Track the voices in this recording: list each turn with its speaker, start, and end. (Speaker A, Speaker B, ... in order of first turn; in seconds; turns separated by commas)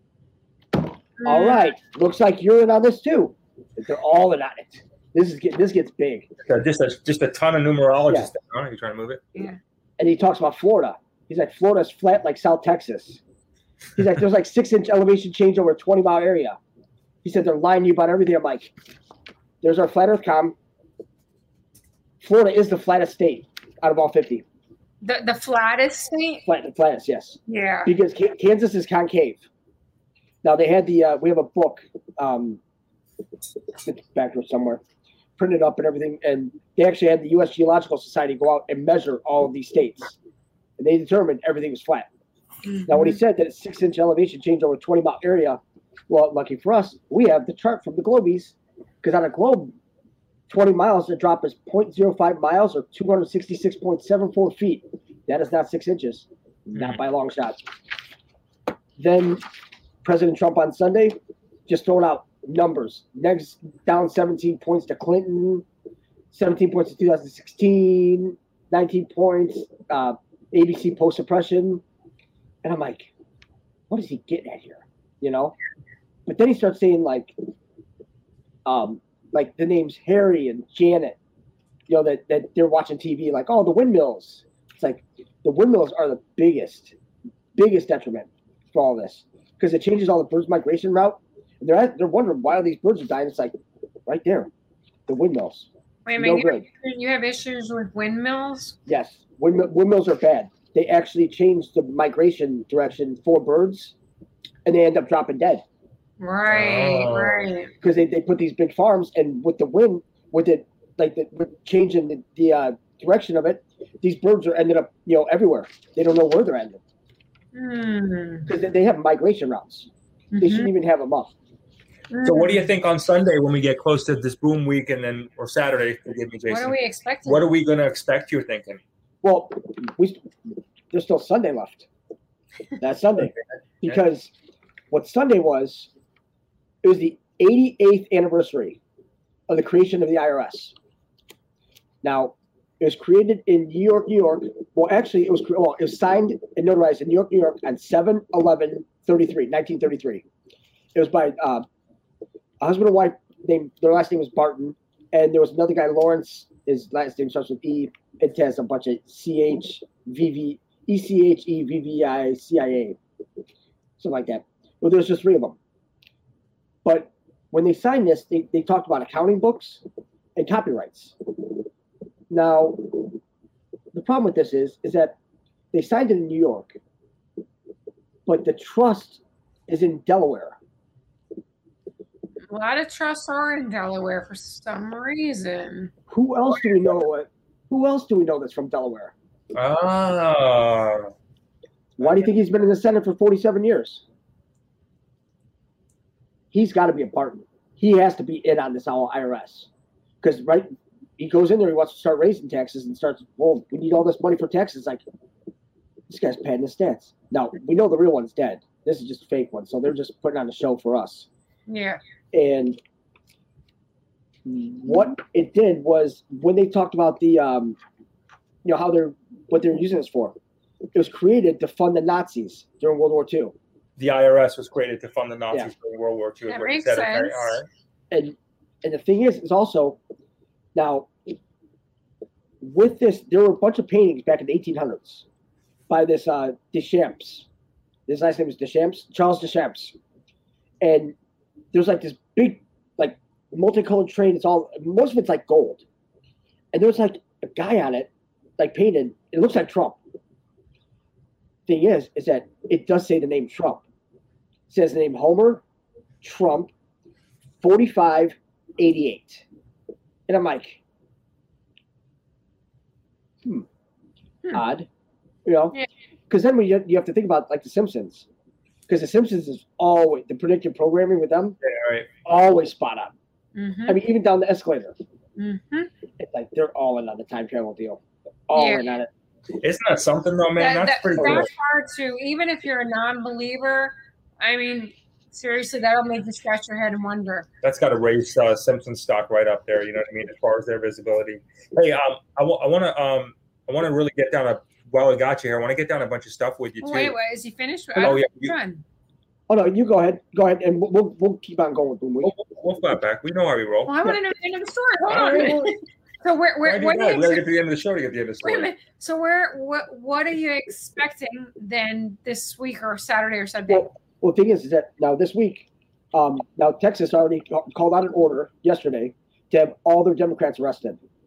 Speaker A: 1.2-6.3, Speaker B: 1.2-1.8, Speaker C: 6.5-9.2, Speaker A: 10.0-13.2, Speaker A: 14.0-16.6, Speaker A: 17.2-18.7, Speaker A: 19.6-20.6, Speaker A: 22.2-24.4, Speaker B: 25.0-26.5, Speaker A: 26.5-29.4, Speaker B: 27.5-27.9, Speaker A: 30.4-32.6, Speaker A: 33.8-34.8, Speaker A: 35.4-40.2, Speaker A: 40.8-42.1, Speaker B: 42.7-43.2, Speaker A: 42.9-49.8, Speaker A: 50.5-57.7, Speaker C: 56.8-57.0, Speaker A: 59.0-59.4, Speaker A: 60.0-65.7, Speaker A: 66.3-71.8, Speaker A: 72.6-73.1, Speaker A: 73.9-75.5, Speaker A: 76.3-77.3, Speaker A: 78.7-81.2, Speaker A: 81.9-87.0, Speaker A: 87.6-93.5, Speaker A: 94.1-94.5, Speaker A: 95.1-96.7, Speaker B: 96.1-98.8, Speaker A: 98.9-104.0, Speaker A: 104.7-105.6, Speaker B: 106.2-107.7, Speaker C: 106.5-107.5, Speaker A: 107.8-116.8, Speaker B: 117.5-118.5, Speaker A: 118.5-121.3, Speaker B: 120.3-120.7, Speaker B: 122.1-122.7, Speaker C: 122.2-128.8, Speaker B: 126.5-127.5, Speaker A: 129.2-130.2, Speaker A: 130.9-131.9, Speaker A: 132.8-134.3, Speaker A: 134.9-135.9, Speaker A: 136.8-138.8, Speaker A: 139.5-140.7, Speaker A: 142.0-150.2, Speaker A: 150.9-151.7, Speaker A: 152.6-163.0, Speaker A: 164.0-165.6, Speaker A: 166.8-169.8, Speaker A: 170.4-171.2, Speaker A: 172.3-173.2, Speaker A: 173.9-175.2, Speaker A: 175.7-176.8, Speaker A: 178.3-180.6, Speaker B: 182.5-185.9, Speaker A: 186.1-189.1, Speaker B: 186.6-186.9, Speaker C: 189.6-191.1, Speaker A: 192.0-194.0, Speaker C: 192.0-192.3, Speaker A: 196.5-199.7, Speaker A: 200.2-205.0, Speaker A: 206.1-211.3, Speaker B: 211.7-212.0, Speaker A: 212.3-212.8, Speaker A: 214.4-217.8, Speaker A: 218.6-220.4, Speaker A: 220.9-223.6, Speaker C: 224.0-227.7, Speaker B: 226.5-227.6, Speaker A: 228.1-230.0, Speaker A: 230.8-231.3, Speaker A: 232.6-235.3, Speaker A: 235.9-237.5, Speaker A: 238.1-240.0, Speaker A: 240.8-241.2, Speaker A: 241.7-245.8, Speaker A: 246.7-250.0, Speaker A: 251.7-253.8, Speaker A: 254.7-255.6, Speaker A: 256.2-256.7, Speaker A: 257.6-259.5, Speaker A: 260.3-260.8, Speaker A: 264.5-264.9, Speaker A: 265.4-265.8, Speaker A: 266.3-268.3, Speaker A: 268.9-271.6, Speaker C: 271.6-272.1, Speaker A: 272.2-273.1, Speaker B: 273.6-274.0, Speaker A: 273.9-274.9, Speaker B: 275.4-275.9, Speaker A: 276.2-279.1, Speaker B: 278.5-278.9, Speaker C: 279.6-281.5, Speaker B: 280.6-287.5, Speaker A: 281.2-281.5, Speaker C: 287.6-297.1, Speaker B: 296.8-298.8, Speaker C: 298.0-298.6, Speaker A: 299.5-302.3, Speaker C: 302.2-304.1, Speaker B: 303.9-307.5, Speaker C: 305.1-305.7, Speaker C: 306.6-308.7, Speaker B: 308.4-313.9, Speaker A: 313.7-321.0